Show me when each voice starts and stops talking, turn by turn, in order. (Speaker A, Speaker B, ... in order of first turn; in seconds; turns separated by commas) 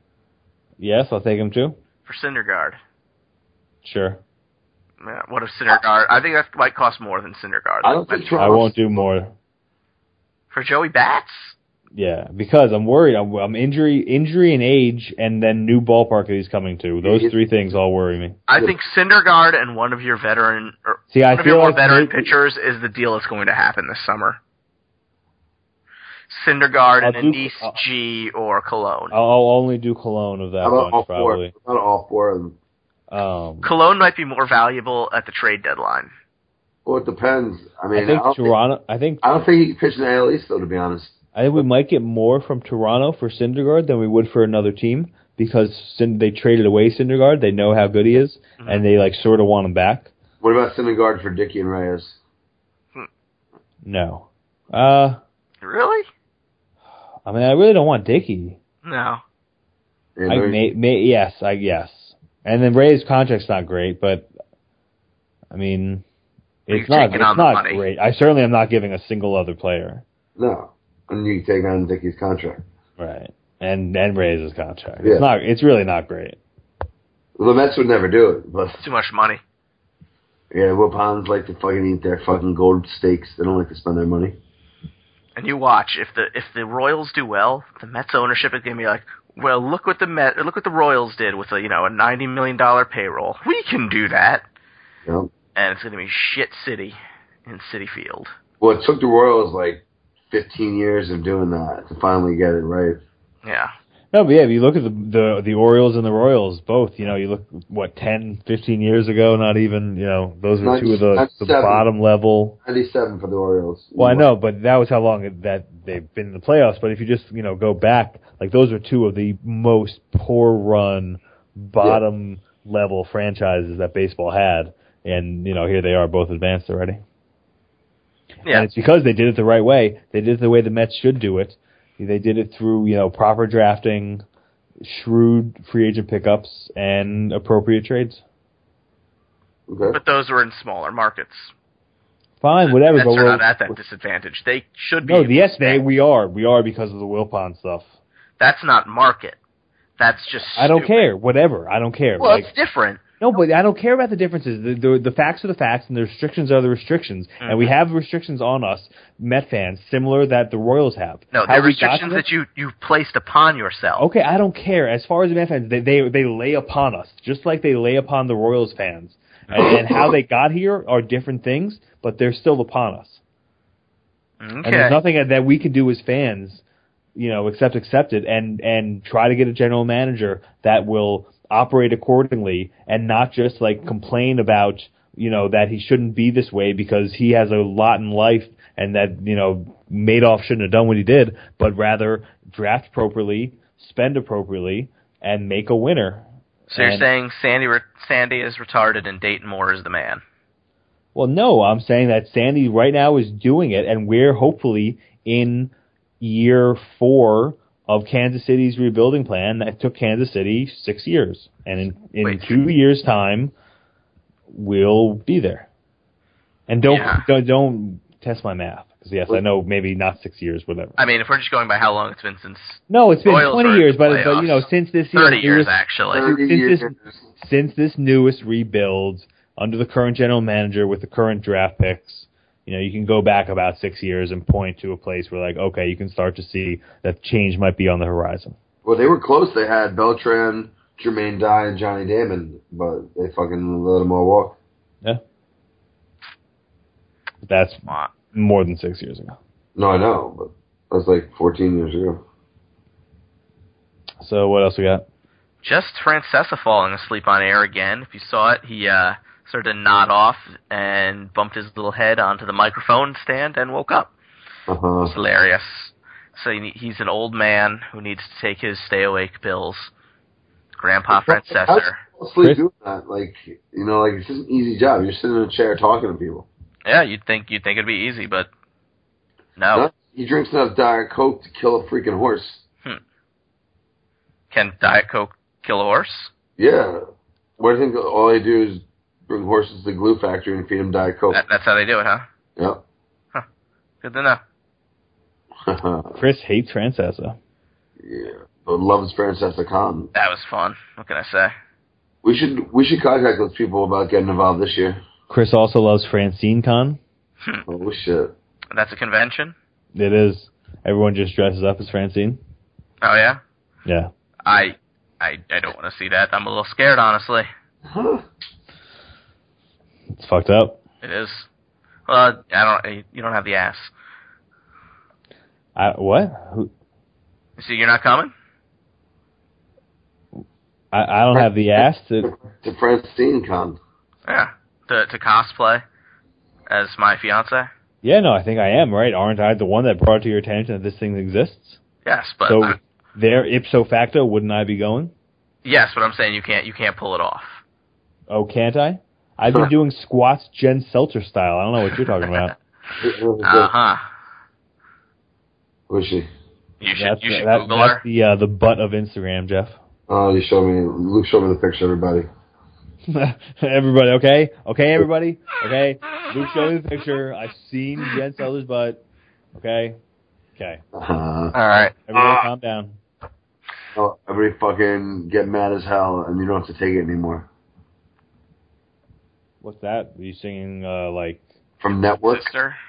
Speaker A: 0.8-1.8, Speaker B: 2.0-2.8, Speaker A: 3.8-4.2, Speaker B: 5.0-8.5, Speaker C: 7.8-8.7, Speaker A: 8.4-9.3, Speaker B: 10.5-11.5, Speaker A: 11.9-18.4, Speaker C: 17.0-17.3, Speaker B: 18.5-24.4, Speaker A: 21.1-22.3, Speaker B: 26.3-29.1, Speaker A: 27.0-27.8, Speaker A: 29.1-31.5, Speaker C: 30.6-32.5, Speaker A: 33.1-33.7, Speaker B: 33.6-36.1, Speaker C: 36.8-38.5, Speaker A: 37.9-39.2, Speaker C: 39.2-41.1, Speaker A: 41.3-50.1, Speaker C: 50.4-52.2, Speaker A: 53.8-55.2, Speaker B: 55.6-56.1, Speaker A: 57.2-58.6, Speaker B: 58.8-59.2, Speaker C: 60.2-60.6, Speaker A: 60.3-64.3, Speaker A: 65.5-66.0, Speaker A: 66.7-70.0, Speaker B: 66.7-67.8, Speaker C: 70.4-72.6, Speaker A: 73.0-76.4, Speaker C: 77.4-78.8, Speaker B: 78.8-79.4, Speaker C: 80.5-84.4, Speaker B: 85.3-94.4, Speaker C: 95.0-95.3, Speaker B: 95.5-98.3, Speaker C: 98.6-103.0, Speaker B: 103.4-103.7, Speaker A: 104.1-112.6, Speaker C: 110.6-111.8, Speaker C: 112.6-114.2, Speaker A: 114.0-127.0, Speaker A: 128.5-134.2, Speaker A: 134.8-138.2, Speaker C: 139.7-140.0, Speaker B: 139.9-141.5, Speaker A: 142.4-143.4, Speaker B: 142.6-145.8, Speaker A: 145.0-147.9, Speaker B: 148.4-149.4, Speaker B: 150.0-151.0, Speaker A: 150.5-152.5, Speaker B: 152.2-153.0, Speaker A: 153.2-162.2, Speaker B: 157.4-157.7, Speaker B: 161.3-164.1, Speaker A: 164.0-173.2, Speaker C: 169.6-170.1, Speaker B: 174.4-175.0, Speaker A: 174.6-176.6, Speaker A: 177.2-197.1, Speaker B: 196.7-200.2, Speaker A: 201.1-213.5, Speaker B: 212.2-212.6, Speaker A: 214.5-215.7, Speaker A: 216.7-221.0, Speaker B: 216.9-217.2, Speaker B: 221.0-226.2, Speaker A: 222.9-238.6, Speaker C: 226.1-227.0, Speaker C: 238.8-244.6, Speaker A: 247.4-249.4, Speaker B: 247.9-248.1, Speaker C: 249.8-252.2, Speaker A: 254.2-255.0, Speaker B: 255.6-264.1, Speaker C: 264.7-265.1, Speaker B: 265.0-269.9, Speaker B: 270.8-272.0, Speaker C: 271.1-276.5, Speaker B: 276.8-278.5, Speaker B: 279.6-279.9, Speaker C: 279.7-282.6, Speaker B: 284.5-286.3, Speaker C: 286.6-287.0, Speaker C: 287.6-291.4, Speaker B: 291.3-292.2, Speaker C: 292.6-292.8, Speaker B: 294.0-294.4, Speaker C: 295.6-296.2, Speaker A: 296.1-297.4, Speaker C: 298.0-300.1, Speaker B: 300.1-301.5, Speaker C: 302.2-305.0, Speaker A: 305.3-307.0, Speaker C: 307.7-308.3, Speaker B: 308.7-309.5, Speaker A: 309.9-312.4, Speaker B: 313.0-313.4, Speaker B: 314.4-317.5, Speaker C: 317.9-318.2, Speaker A: 320.1-320.8, Speaker B: 321.0-321.5, Speaker B: 322.1-323.9, Speaker A: 325.8-326.7, Speaker B: 327.6-328.3, Speaker A: 330.9-332.3, Speaker C: 332.2-333.8, Speaker B: 334.3-335.8, Speaker B: 336.7-337.7, Speaker A: 338.0-341.8, Speaker B: 342.0-342.8, Speaker A: 342.5-345.1, Speaker B: 345.6-347.6, Speaker A: 348.3-352.5, Speaker C: 353.0-353.7, Speaker B: 353.4-354.0, Speaker C: 355.9-356.3, Speaker B: 356.8-358.0, Speaker A: 356.9-359.8, Speaker C: 360.1-362.3, Speaker A: 363.1-369.0, Speaker A: 369.5-370.0, Speaker A: 370.6-370.8, Speaker C: 370.9-371.6, Speaker B: 371.5-371.9, Speaker A: 372.1-373.0, Speaker C: 373.9-377.5, Speaker A: 379.6-381.4, Speaker C: 381.8-382.5, Speaker B: 382.2-382.8